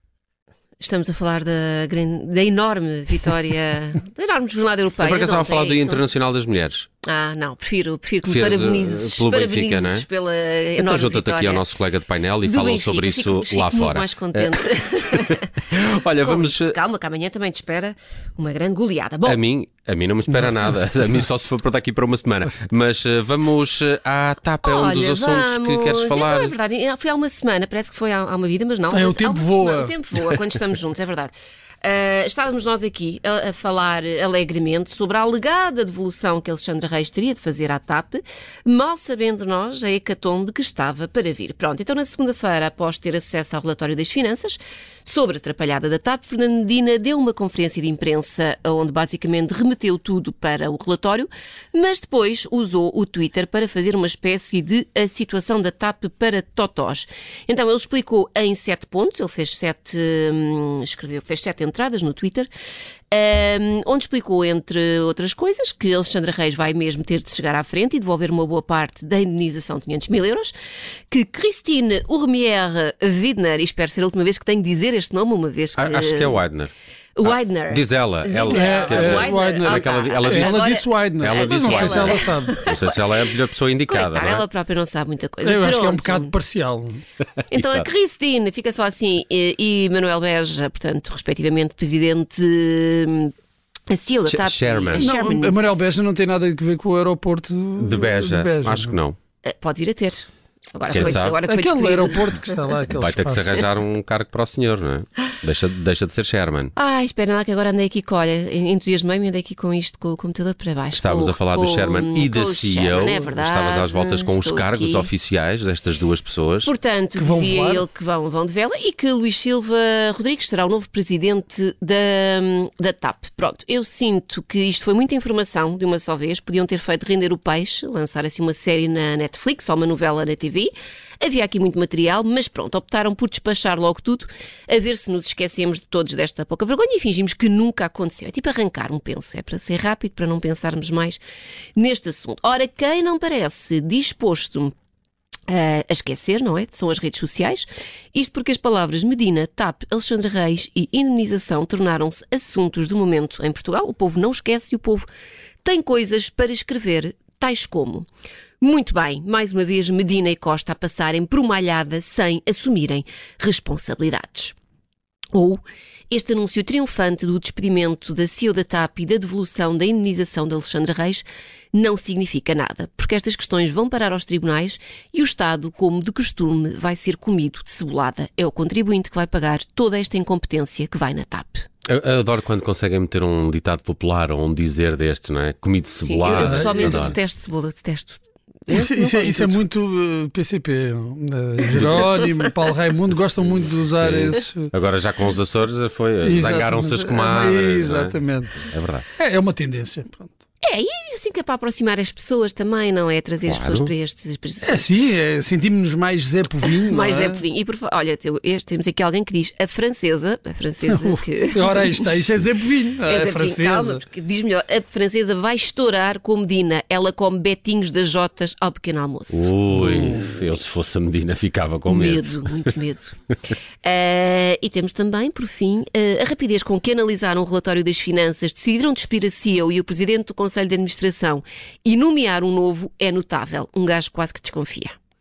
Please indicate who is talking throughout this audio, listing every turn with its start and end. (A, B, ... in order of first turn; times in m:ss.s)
0:00.8-0:06.0 A
0:05.0-0:06.9 B
0:07.0-0:11.7 A
0:08.3-0:10.1 B
0:10.8-0:16.8 B
0:12.4-0:15.6 A
0:16.2-0:19.4 A
0:19.2-0:26.6 B
0:24.6-1:02.5 A
0:28.9-0:30.0 C
1:03.1-1:10.5 A
1:11.1-1:16.4 A
1:15.8-1:16.7 B
1:17.2-1:23.0 A
1:17.2-1:20.7 B
1:18.5-1:22.6 C
1:21.2-1:24.4 B
1:23.9-1:26.3 A
1:25.4-1:27.0 C
1:27.5-1:33.3 A
1:27.5-1:27.9 B
1:33.9-1:35.6 A
1:34.3-1:35.1 B
1:34.9-1:39.0 C
1:37.8-1:39.2 B
1:39.4-1:42.6 A
1:40.9-1:41.4 B
1:40.9-1:43.6 C
1:42.9-1:46.7 B
1:46.8-1:55.1 A
1:50.9-1:56.7 B
1:56.6-2:21.2 A
1:57.2-1:57.8 C
2:21.8-2:24.7 A
2:25.5-2:35.1 A
2:35.6-2:38.1 A
2:38.6-2:44.6 A
2:45.3-3:01.7 A
3:01.9-3:07.2 B
3:06.0-3:09.6 A
3:06.3-3:07.1 C
3:08.7-3:14.7 C
3:11.7-3:12.5 A
3:11.8-3:12.1 B
3:13.9-3:19.1 B
3:16.2-3:20.3 C
3:20.6-3:24.9 A
3:23.5-3:23.9 B
3:24.6-3:27.4 C
3:26.8-3:32.4 A
3:30.9-3:34.0 C
3:33.0-3:39.5 A
3:39.3-3:42.5 B
3:39.8-3:40.2 C
3:41.9-3:43.2 A
3:43.8-3:54.9 A